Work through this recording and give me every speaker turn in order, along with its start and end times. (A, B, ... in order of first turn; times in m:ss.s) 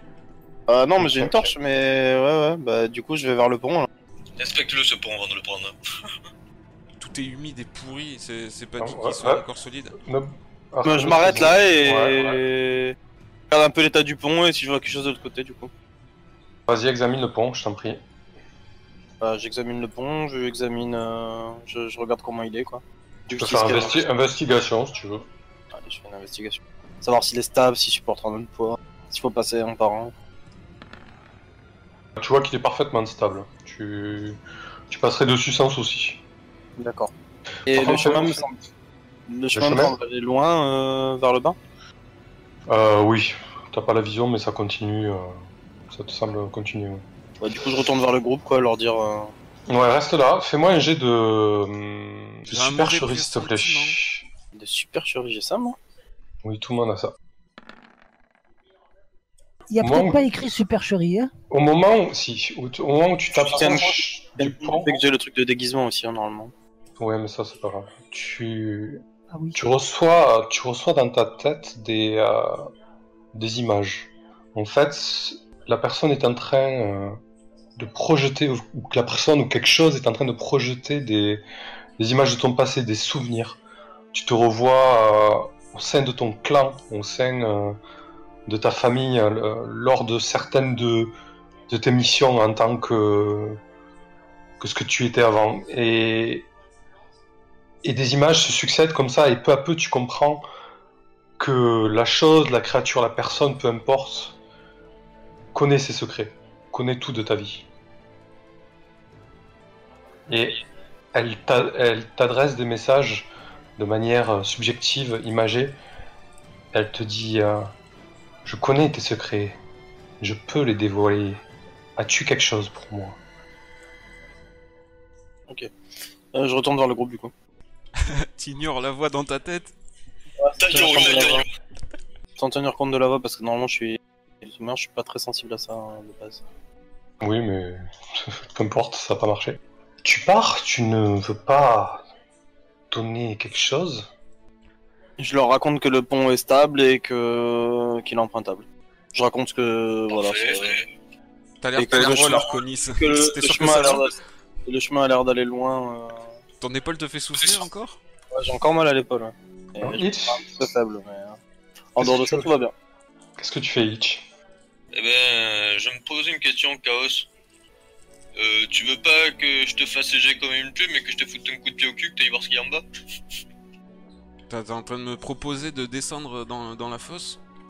0:00.7-0:03.9 A
0:01.0-0:01.5 B
0:04.4-0:05.7 C
0:07.0-0:10.0 D
0:08.8-0:09.4 B
0:10.0-0:12.4 B
0:10.8-0:13.0 A
0:13.5-0:15.7 A
0:16.7-0:18.0 B
0:19.2-0:24.0 A
0:23.4-0:25.3 B
0:25.7-0:30.1 A
0:32.2-0:36.2 B
0:36.8-0:37.1 A
0:37.6-0:38.6 A
0:37.7-0:38.4 B
0:39.3-0:41.6 A
0:39.5-0:39.9 B
0:42.7-0:47.0 B
0:47.4-0:49.3 A
0:49.7-0:54.2 B
0:52.5-0:54.0 D
0:54.5-0:55.8 A
0:56.4-0:57.1 B
0:59.7-1:01.3 E
0:59.8-1:00.2 B
1:01.5-1:04.9 B
1:03.4-1:06.5 A
1:07.0-1:09.0 B
1:09.3-1:09.6 E
1:09.5-1:12.7 B
1:13.3-1:17.2 B
1:17.8-1:21.4 B
1:22.0-1:23.6 B
1:24.1-1:27.8 B
1:28.4-1:31.1 B
1:31.7-1:33.6 B
1:34.6-1:36.5 B
1:37.8-1:40.4 B
1:41.4-1:44.4 B
1:45.5-1:47.6 B
1:50.3-1:50.6 B
1:51.1-1:55.8 B
1:56.7-1:57.7 B
1:58.4-1:59.6 B
2:00.2-2:01.4 B
2:02.0-2:03.2 B
2:06.3-2:07.3 A
2:08.0-2:09.7 D
2:10.4-2:11.4 A
2:10.6-2:11.5 C
2:12.4-2:16.4 A
2:17.2-2:22.0 B
2:22.9-2:24.1 B
2:25.2-2:30.8 A
2:30.1-2:30.9 C
2:31.6-2:34.1 D
2:31.8-2:36.3 A
2:36.6-2:38.0 D
2:38.3-2:41.4 A
2:39.8-2:40.4 B
2:42.0-2:42.7 A
2:42.0-2:42.5 B
2:43.4-2:44.2 B
2:44.9-2:47.3 C
2:48.3-2:52.8 C
2:54.5-2:57.4 D